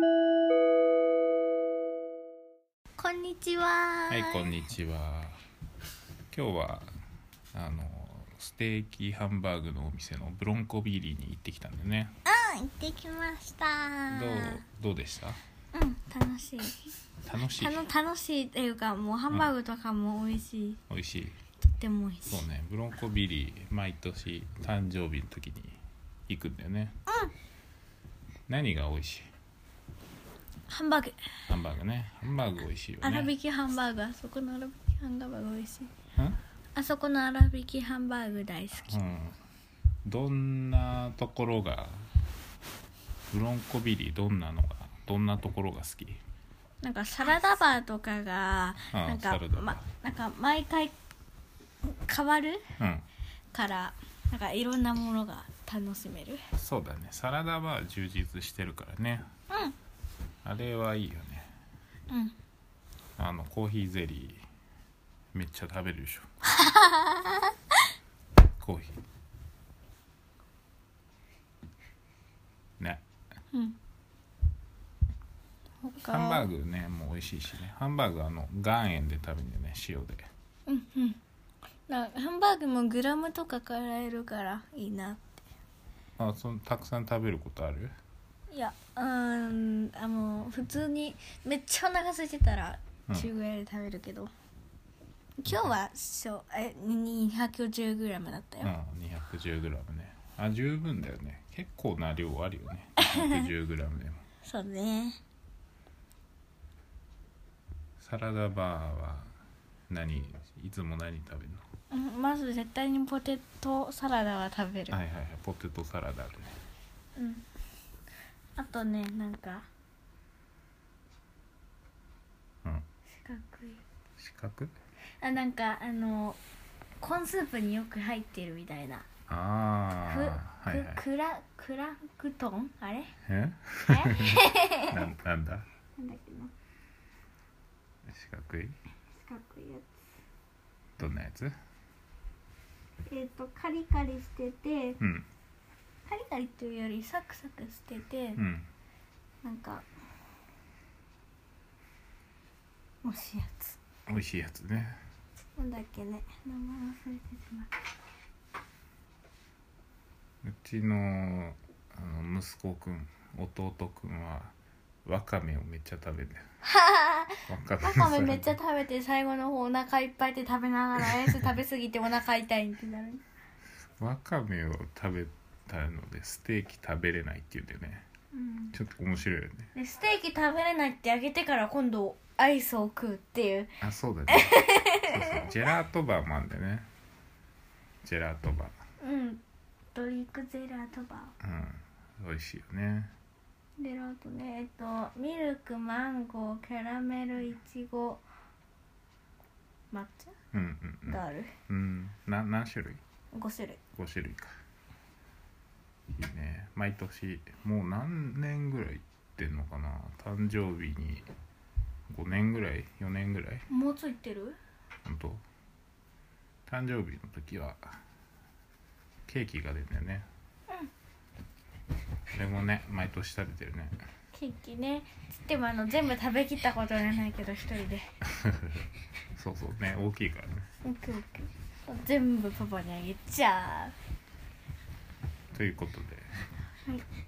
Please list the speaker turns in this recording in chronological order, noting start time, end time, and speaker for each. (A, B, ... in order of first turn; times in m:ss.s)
0:03.0-0:04.5 A
0:04.1-0:05.4 B
0:06.3-0:06.9 B
0:07.5-0:12.2 B
0:12.2-0:14.6 A
0:14.1-0:15.4 B
0:15.7-0:16.9 A
0:17.2-0:17.9 B
0:17.5-0:20.8 A
0:20.9-0:21.4 B
0:21.6-0:22.4 A
0:22.3-0:25.8 B
0:26.3-0:27.0 B
0:27.1-0:27.3 A
0:28.5-0:29.3 B
0:30.7-0:31.3 A
0:31.5-0:33.3 B
0:33.0-0:35.9 A
0:36.8-0:39.0 A
0:38.8-0:39.4 B
0:40.0-0:42.1 B
0:43.3-0:46.2 B
0:46.8-0:50.9 A
0:48.9-0:49.9 B
0:51.8-0:52.6 A
0:52.8-0:53.1 B
0:53.5-0:56.4 A
0:56.5-0:59.3 B
0:59.5-0:59.8 A
1:00.4-1:01.5 B
1:02.1-1:02.4 A
1:03.2-1:04.4 B
1:05.3-1:06.3 B
1:06.6-1:07.5 A
1:08.6-1:09.0 B
1:15.8-1:16.5 A
1:16.0-1:20.3 B
1:20.7-1:21.2 A
1:21.9-1:25.4 A
1:26.2-1:28.0 B
1:28.5-1:34.3 A
1:35.4-1:38.7 A
1:38.6-1:44.2 B
1:43.0-1:43.5 A
1:44.4-1:45.2 A
1:48.0-1:49.3 B
1:49.9-1:51.6 B
1:51.9-1:55.0 A
1:54.9-1:56.6 B
1:57.2-1:57.4 A
1:58.6-1:59.7 A
2:03.2-2:03.8 A
2:04.2-2:04.7 B
2:05.2-2:06.4 A
2:07.0-2:09.1 A
2:09.3-2:11.0 B
2:10.1-2:13.1 A
2:13.2-2:15.7 B
2:13.8-2:15.1 A
2:16.0-2:16.5 A
2:18.1-2:18.8 B
2:19.2-2:20.0 A
2:21.0-2:21.6 B
2:23.1-2:25.0 A
2:25.0-2:25.3 B
2:26.1-2:28.4 A
2:28.4-2:28.7 B
2:29.4-2:29.9 A
2:33.0-2:33.8 A
2:34.1-2:35.0 B
2:35.6-2:37.7 A
2:40.4-2:44.5 B
2:45.0-2:46.4 B
2:46.6-2:53.2 A
2:47.5-2:48.6 B
2:54.0-2:58.1 B
2:58.3-2:58.7 A
2:58.7-2:59.7 B
2:59.8-3:03.7 A
3:03.8-3:06.9 B
3:04.3-3:05.5 A
3:08.0-3:08.7 B
3:09.0-3:09.4 A
3:09.9-3:11.4 A
3:11.4-3:13.1 B
3:13.8-3:18.2 A
3:19.9-3:20.4 A
3:20.5-3:23.0 B
3:21.1-3:21.5 A
3:23.3-3:23.8 A
3:23.9-3:24.6 B
3:26.1-3:31.3 B
3:32.1-3:33.7 B
3:33.7-3:34.6 A
3:35.0-3:35.4 B
3:36.7-3:38.0 B
3:39.3-3:40.3 B
3:42.3-3:44.0 B
3:44.3-3:48.1 A
3:48.3-3:48.8 B
3:49.4-3:50.7 B
3:50.8-3:54.0 A
3:55.5-3:56.3 B